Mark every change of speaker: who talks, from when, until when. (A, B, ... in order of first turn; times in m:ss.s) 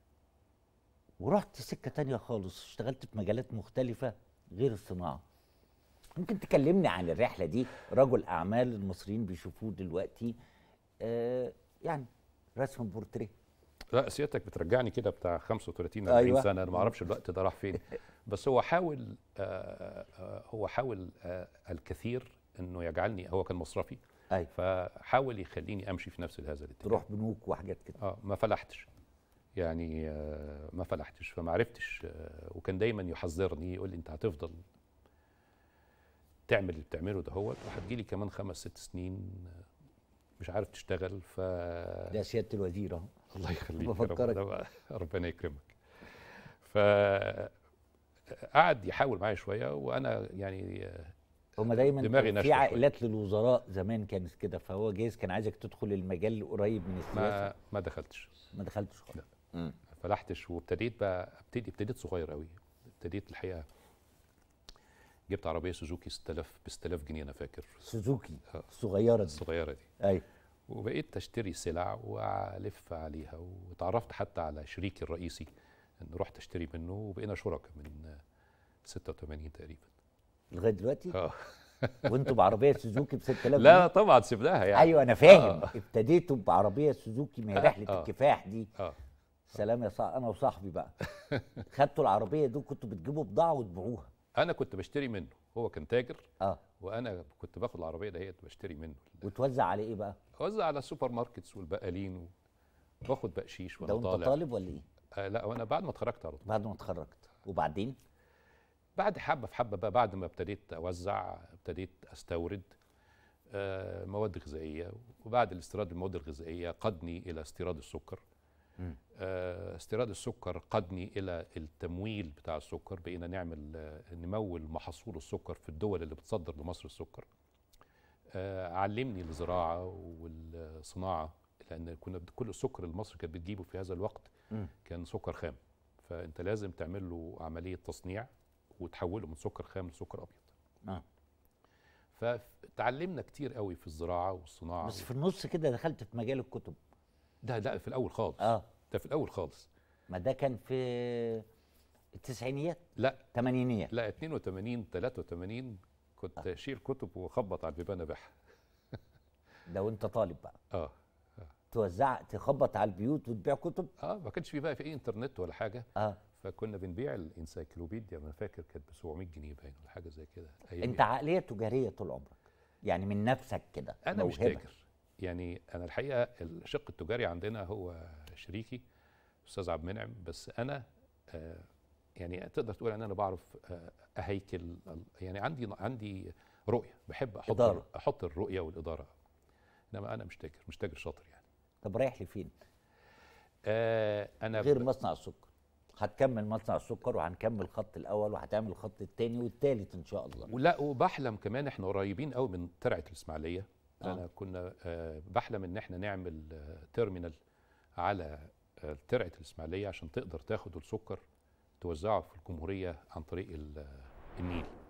0:01.2-0:05.2 A
0:06.1-0:10.4 A
0:11.0-0:13.3 A
0:13.9-0:27.0 B
0:16.1-0:16.9 A
0:26.8-0:28.0 A
0:28.0-0:28.9 B
0:29.5-0:34.6 B
0:36.5-0:39.6 B
0:40.4-0:42.2 B
0:42.1-0:43.1 A
0:43.3-0:45.7 B
0:43.8-0:44.4 A
0:46.6-0:47.5 B
0:48.3-0:52.8 B
0:51.6-0:57.5 A
0:57.1-0:58.3 B
0:58.5-0:59.8 A
0:59.9-1:03.6 B
1:05.3-1:07.9 B
1:07.8-1:09.4 A
1:09.3-1:09.9 B
1:10.0-1:10.2 A
1:10.7-1:18.2 B
1:18.8-1:19.9 B
1:20.5-1:21.2 A
1:21.1-1:22.3 B
1:22.0-1:23.9 A
1:23.3-1:25.8 B
1:24.7-1:28.7 A
1:27.5-1:28.1 B
1:29.5-1:31.0 A
1:31.1-1:31.6 B
1:31.6-1:34.1 A
1:34.3-1:39.2 B
1:39.2-1:40.2 A
1:40.4-1:42.3 B
1:43.0-1:44.4 B
1:43.8-1:44.8 A
1:45.1-1:46.5 B
1:46.4-1:48.0 A
1:49.0-1:52.8 B
1:53.5-1:58.2 B
1:59.1-2:07.3 B
2:08.3-2:14.3 B
2:14.8-2:20.5 B
2:22.1-2:25.1 B
2:24.8-2:26.8 A
2:27.4-2:29.7 B
2:28.4-2:28.6 A
2:30.1-2:31.4 A
2:32.2-2:33.9 A
2:33.0-2:33.2 B
2:33.9-2:38.3 B
2:39.7-2:40.6 A
2:41.7-2:43.9 A
2:44.0-2:51.0 B
2:50.8-2:54.6 A
2:54.0-2:58.8 B
2:59.4-3:09.1 B
3:07.5-3:07.8 A
3:09.9-3:11.4 B
3:11.8-3:12.5 A
3:13.6-3:14.9 B
3:14.5-3:20.5 A
3:20.5-3:27.4 B
3:28.0-3:31.2 B
3:31.8-3:34.7 B